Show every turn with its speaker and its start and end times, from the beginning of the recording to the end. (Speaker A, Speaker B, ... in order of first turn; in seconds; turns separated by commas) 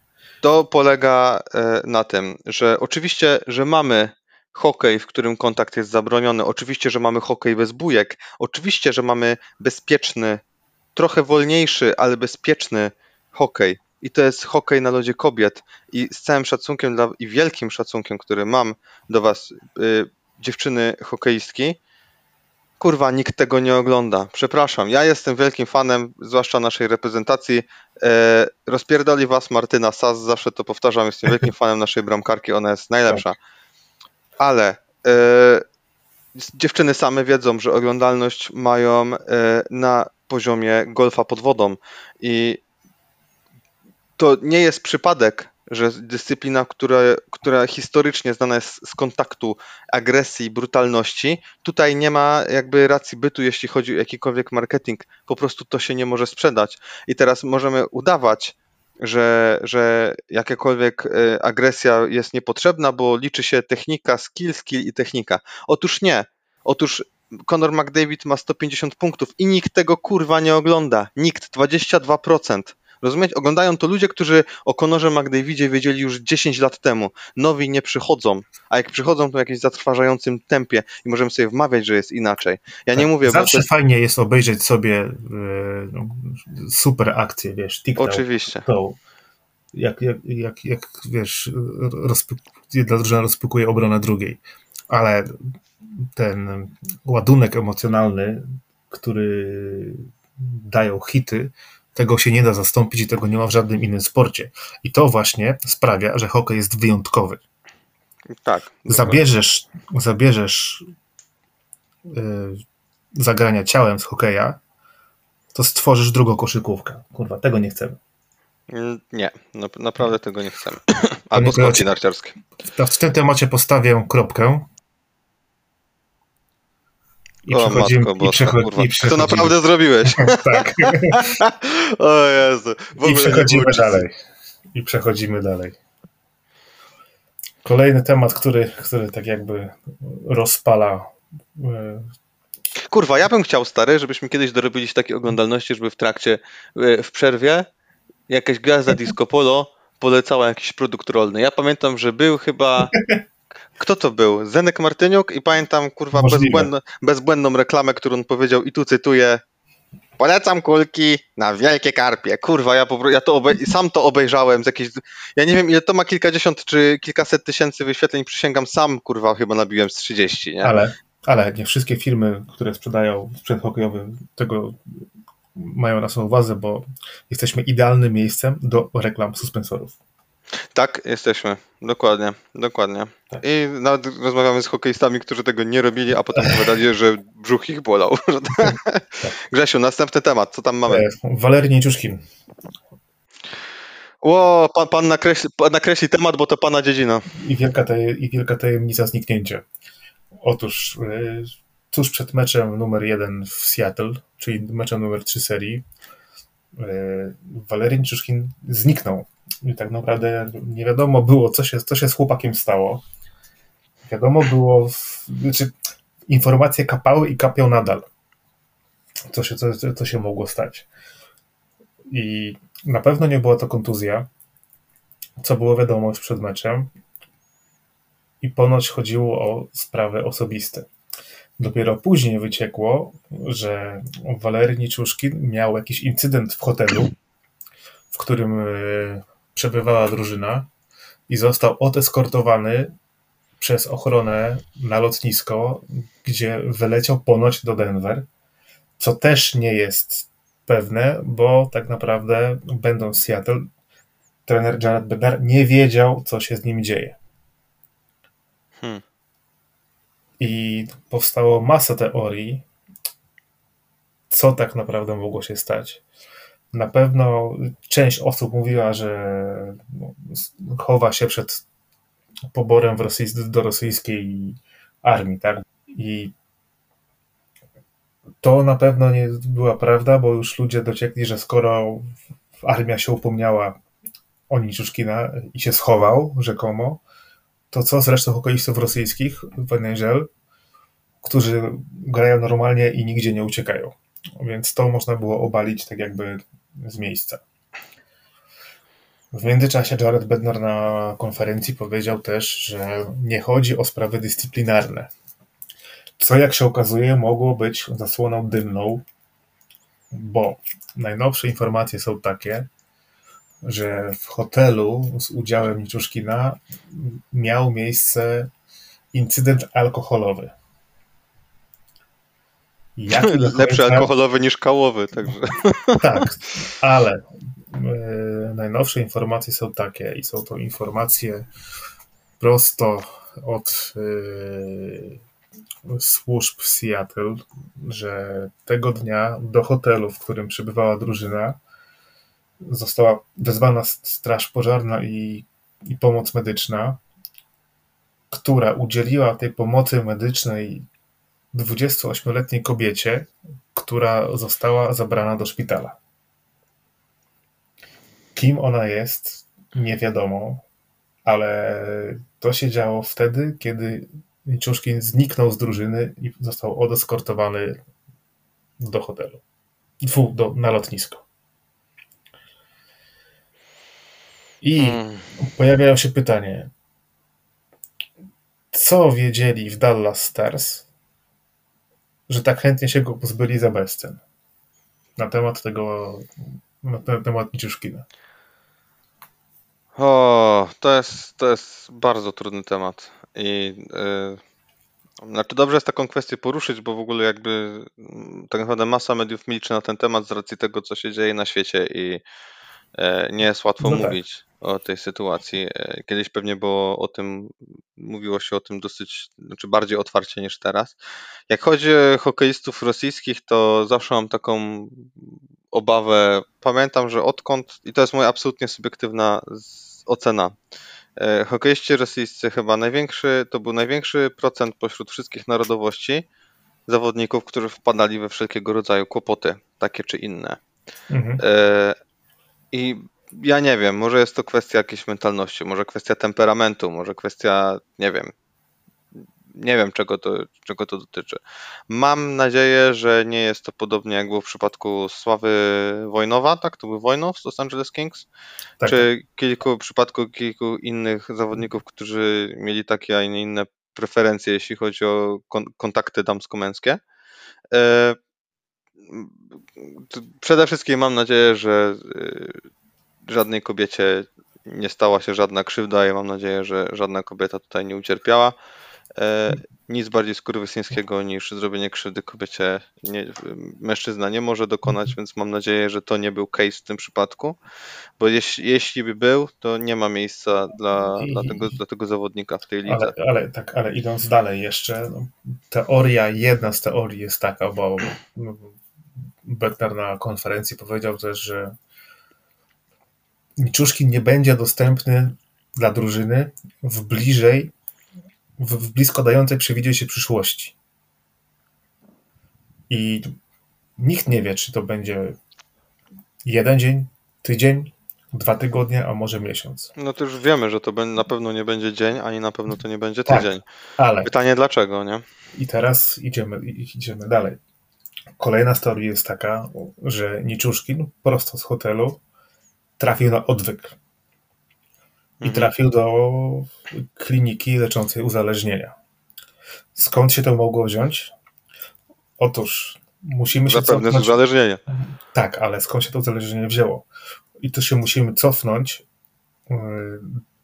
Speaker A: 0.4-10.4, Speaker A: 10.9-21.8, Speaker A: 22.8-33.4, Speaker A: 34.4-35.6, Speaker A: 36.3-42.6, Speaker A: 44.2-83.7, Speaker B: 82.9-89.0, Speaker A: 88.0-88.7, Speaker B: 89.7-107.4, Speaker A: 108.4-109.2, Speaker B: 108.9-110.8, Speaker B: 112.1-112.6, Speaker B: 113.2-114.6, Speaker B: 115.5-118.0, Speaker A: 118.7-122.3, Speaker B: 121.3-121.9, Speaker B: 122.6-124.7, Speaker B: 127.4-129.5, Speaker A: 127.5-134.0, Speaker B: 130.0-131.3, Speaker B: 133.0-134.2, Speaker B: 134.7-135.8, Speaker B: 137.6-142.1, Speaker A: 142.9-147.7, Speaker A: 148.3-152.9, Speaker A: 153.8-159.4, Speaker B: 156.1-156.7, Speaker A: 160.2-170.7, Speaker B: 170.6-175.0, Speaker B: 175.6-179.9, Speaker A: 180.7-191.0, Speaker B: 186.3-186.6, Speaker B: 188.6-189.3, Speaker B: 190.8-192.2, Speaker A: 194.2-197.3, Speaker B: 197.3-199.6, Speaker B: 200.4-205.8, Speaker B: 206.8-213.0, Speaker B: 214.1-215.7, Speaker B: 216.3-218.1, Speaker B: 219.3-220.9, Speaker B: 222.1-224.3, Speaker B: 225.4-226.9, Speaker B: 228.4-230.9, Speaker B: 231.6-237.1, Speaker B: 238.1-240.7, Speaker B: 241.3-242.9, Speaker B: 243.6-248.2, Speaker B: 249.0-253.7, Speaker B: 254.4-257.2, Speaker B: 260.4-262.6, Speaker B: 264.3-266.0, Speaker B: 266.7-271.6, Speaker B: 272.5-276.3, Speaker B: 278.4-283.8, Speaker B: 284.5-287.0, Speaker B: 287.7-290.3, Speaker B: 291.2-297.4, Speaker B: 299.3-305.1, Speaker B: 306.2-309.0, Speaker B: 310.1-312.7, Speaker B: 313.6-318.5, Speaker B: 319.1-320.5, Speaker B: 322.9-324.1, Speaker A: 323.1-326.2, Speaker B: 326.0-331.5, Speaker B: 332.4-335.2, Speaker B: 335.9-341.6, Speaker B: 342.6-347.0, Speaker B: 348.3-350.9, Speaker B: 351.5-356.0, Speaker B: 358.3-360.6, Speaker B: 361.2-367.8, Speaker B: 368.8-369.4, Speaker B: 370.0-371.2, Speaker B: 374.6-376.7, Speaker A: 374.8-375.2, Speaker B: 378.7-380.9, Speaker B: 382.3-384.2, Speaker B: 385.1-386.3, Speaker B: 386.8-388.1, Speaker A: 390.0-394.4, Speaker A: 395.2-402.2, Speaker A: 403.0-410.9, Speaker B: 403.8-404.2, Speaker A: 411.5-415.1, Speaker A: 415.7-420.5, Speaker A: 421.2-426.2, Speaker A: 426.9-430.6, Speaker B: 431.1-431.4, Speaker A: 431.4-432.0, Speaker A: 432.7-438.3, Speaker A: 439.5-441.4, Speaker A: 441.9-448.2, Speaker B: 448.8-449.1, Speaker A: 448.8-457.0, Speaker A: 457.7-458.2, Speaker A: 459.1-462.6, Speaker A: 463.3-468.5, Speaker A: 469.2-477.6, Speaker A: 478.2-483.1, Speaker B: 481.1-481.7, Speaker B: 482.8-488.8, Speaker B: 489.4-491.7, Speaker B: 493.6-497.7, Speaker B: 498.6-500.7, Speaker B: 502.9-503.3, Speaker B: 504.0-505.4, Speaker B: 506.4-509.9, Speaker A: 510.0-513.6, Speaker B: 513.2-514.3, Speaker A: 514.2-515.2, Speaker B: 515.5-517.6, Speaker B: 518.4-522.2, Speaker B: 523.0-524.0, Speaker A: 525.4-525.7, Speaker B: 525.4-528.9, Speaker B: 529.9-531.3, Speaker B: 532.4-534.4, Speaker A: 533.6-534.8, Speaker B: 534.9-537.0, Speaker B: 537.6-539.0, Speaker B: 539.7-540.4